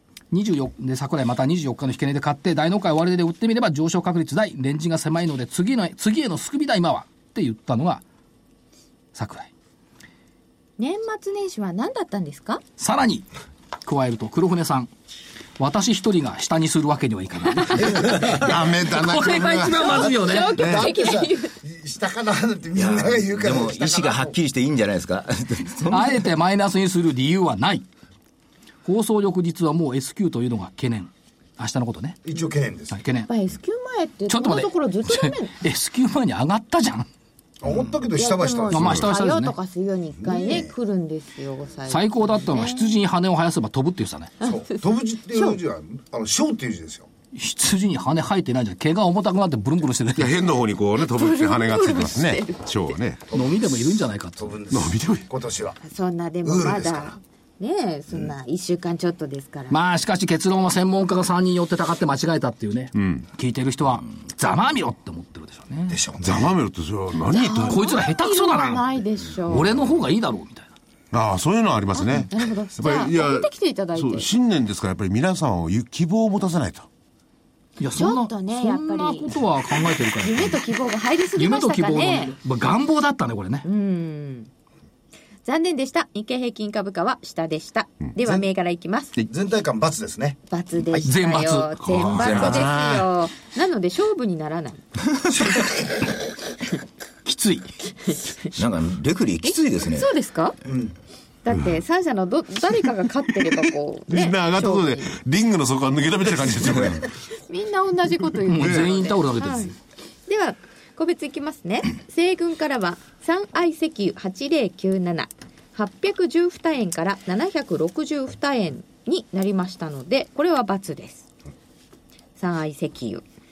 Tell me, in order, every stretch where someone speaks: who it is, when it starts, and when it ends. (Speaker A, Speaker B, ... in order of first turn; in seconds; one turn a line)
Speaker A: 0.3-8.0
Speaker A: 9.1-9.5
Speaker B: 10.8-12.6
Speaker A: 12.8-13.3
Speaker A: 13.8-14.9
Speaker A: 15.6-20.5
Speaker C: 18.1-20.0
Speaker B: 19.7-21.5
Speaker D: 20.3-24.4
Speaker C: 20.6-20.9
Speaker E: 22.8-26.3
Speaker A: 25.9-27.9
Speaker A: 28.8-32.2
Speaker D: 32.2-33.0
Speaker A: 32.9-33.3
Speaker B: 33.3-35.5
Speaker A: 34.3-37.1
Speaker D: 37.6-39.1
Speaker B: 38.1-43.0
Speaker A: 38.7-39.5
Speaker D: 40.1-40.7
Speaker A: 41.9-44.3
Speaker B: 44.4-44.8
Speaker D: 44.4-47.1
Speaker B: 45.3-45.6
Speaker A: 47.3-50.3
Speaker C: 50.2-53.2
Speaker B: 51.0-53.0
Speaker D: 53.3-55.8
Speaker A: 53.3-54.5
Speaker C: 54.7-55.2
Speaker B: 55.8-59.8
Speaker D: 56.4-57.2
Speaker A: 59.7-66.0
Speaker C: 62.9-63.2
Speaker D: 65.9-66.6
Speaker C: 66.2-68.0
Speaker B: 67.3-69.7
Speaker A: 67.6-68.8
Speaker A: 69.5-70.7
Speaker C: 71.1-76.9
Speaker B: 71.9-74.3
Speaker A: 77.8-80.6
Speaker B: 78.0-79.3
Speaker B: 80.2-82.3
Speaker A: 81.3-83.7
Speaker B: 83.6-84.5
Speaker B: 85.4-89.1
Speaker D: 88.2-88.5
Speaker D: 89.2-91.1
Speaker B: 90.5-94.8
Speaker A: 91.0-92.4
Speaker C: 92.1-93.0
Speaker E: 92.2-92.7
Speaker A: 97.2-97.7
Speaker B: 98.1-98.5
Speaker E: 98.5-100.1
Speaker B: 99.5-100.6
Speaker D: 100.6-100.9
Speaker B: 101.4-105.2
Speaker C: 104.1-107.1
Speaker B: 107.4-109.7
Speaker A: 108.5-109.7
Speaker C: 108.6-108.9
Speaker B: 110.3-121.3
Speaker B: 122.4-123.2